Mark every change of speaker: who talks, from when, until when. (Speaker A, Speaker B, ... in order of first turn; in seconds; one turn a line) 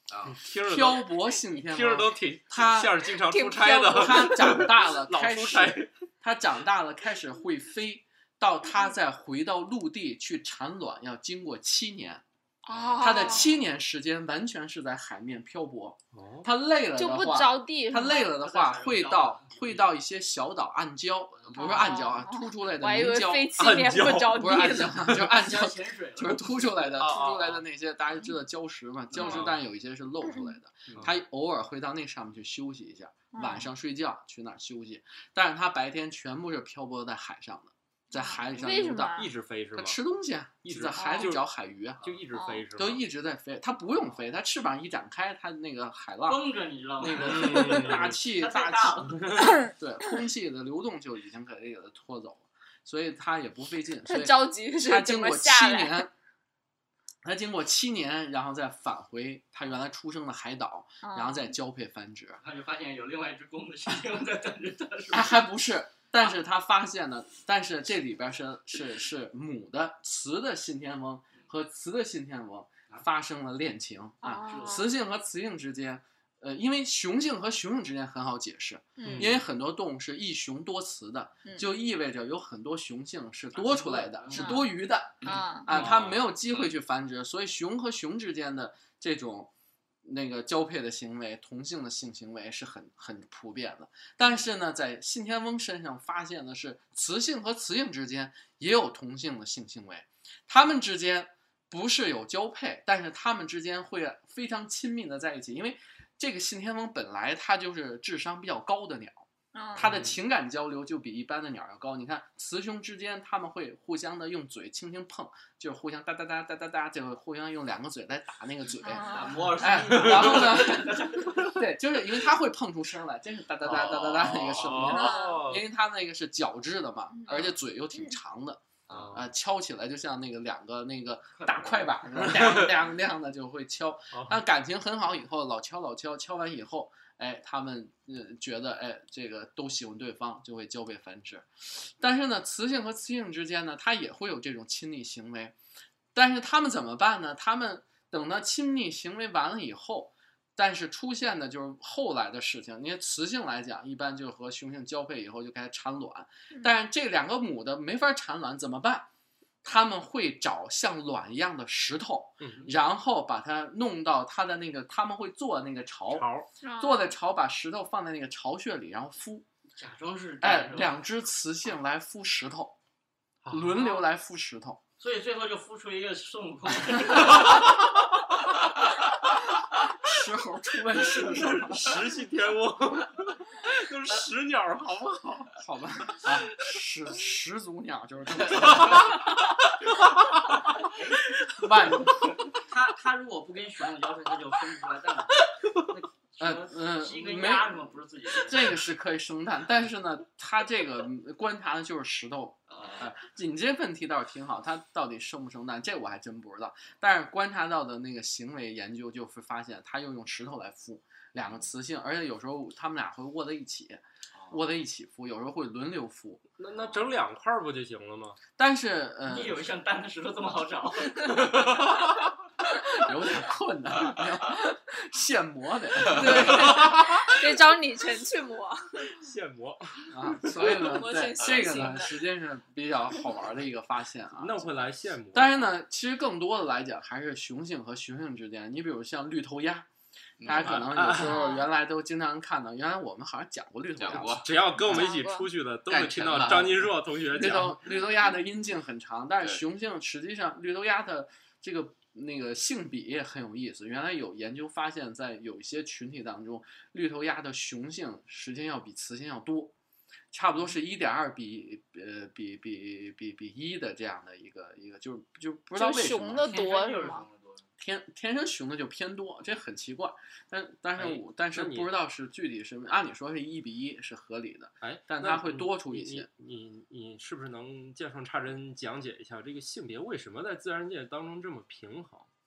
Speaker A: 0.1-0.4
Speaker B: 0.3-5.9
Speaker C: 0.6-3.0
Speaker D: 3.2-4.6
Speaker C: 3.9-12.2
Speaker D: 12.6-13.5
Speaker A: 12.7-13.4
Speaker C: 13.0-23.6
Speaker B: 16.1-16.5
Speaker D: 16.9-18.4
Speaker E: 18.3-19.5
Speaker D: 21.5-25.1
Speaker B: 23.5-24.5
Speaker C: 24.3-42.1
Speaker E: 25.2-26.6
Speaker B: 27.0-27.6
Speaker B: 29.2-29.6
Speaker D: 33.3-33.7
Speaker D: 38.1-39.3
Speaker B: 39.2-40.0
Speaker B: 40.6-41.4
Speaker D: 41.0-41.4
Speaker B: 42.0-43.0
Speaker D: 42.3-42.7
Speaker C: 42.8-46.4
Speaker E: 46.2-49.4
Speaker C: 47.0-56.1
Speaker B: 47.2-48.2
Speaker D: 54.1-56.1
Speaker C: 57.2-62.4
Speaker D: 61.0-61.5
Speaker E: 62.4-65.4
Speaker C: 65.1-89.5
Speaker D: 74.2-74.9
Speaker E: 74.5-74.8
Speaker D: 79.0-79.3
Speaker B: 79.0-79.3
Speaker E: 83.5-84.6
Speaker D: 84.3-84.7
Speaker A: 85.2-86.7
Speaker D: 85.2-85.8
Speaker B: 85.7-86.1
Speaker C: 90.0-145.5
Speaker D: 109.5-109.9
Speaker B: 109.8-110.2
Speaker D: 118.8-119.4
Speaker E: 119.0-121.4
Speaker B: 119.9-120.5
Speaker A: 123.6-124.7
Speaker B: 124.5-125.6
Speaker D: 124.8-125.5
Speaker D: 127.2-128.1
Speaker A: 128.9-129.2
Speaker B: 128.9-129.2
Speaker E: 131.4-132.1
Speaker B: 132.2-132.7
Speaker B: 134.1-134.4
Speaker C: 146.1-159.1
Speaker C: 159.6-169.4
Speaker B: 162.4-162.7
Speaker B: 166.1-166.5
Speaker D: 166.6-167.1
Speaker E: 169.8-171.0
Speaker C: 170.4-172.8
Speaker B: 173.4-173.9
Speaker C: 173.5-174.8
Speaker E: 175.0-177.5
Speaker C: 179.8-182.1
Speaker B: 181.2-185.5
Speaker C: 185.5-189.2
Speaker C: 191.5-192.4
Speaker E: 192.6-198.8
Speaker C: 196.4-197.8
Speaker C: 198.4-216.4
Speaker E: 202.7-203.1
Speaker B: 216.6-218.4
Speaker C: 218.6-219.7
Speaker E: 219.3-221.3
Speaker C: 222.8-227.3
Speaker A: 226.0-226.8
Speaker D: 226.1-229.0
Speaker B: 229.1-229.9
Speaker C: 230.1-239.9
Speaker A: 230.5-232.1
Speaker D: 230.5-232.1
Speaker B: 234.4-235.6
Speaker A: 240.4-241.1
Speaker C: 240.4-244.4
Speaker B: 240.8-241.4
Speaker D: 241.2-241.7
Speaker A: 244.0-245.0
Speaker B: 244.1-247.8
Speaker D: 244.8-245.5
Speaker A: 245.9-246.9
Speaker C: 247.3-259.7
Speaker C: 260.3-266.6
Speaker D: 265.7-267.2
Speaker E: 266.5-267.6
Speaker C: 267.8-276.3
Speaker B: 270.9-271.9
Speaker B: 274.8-282.3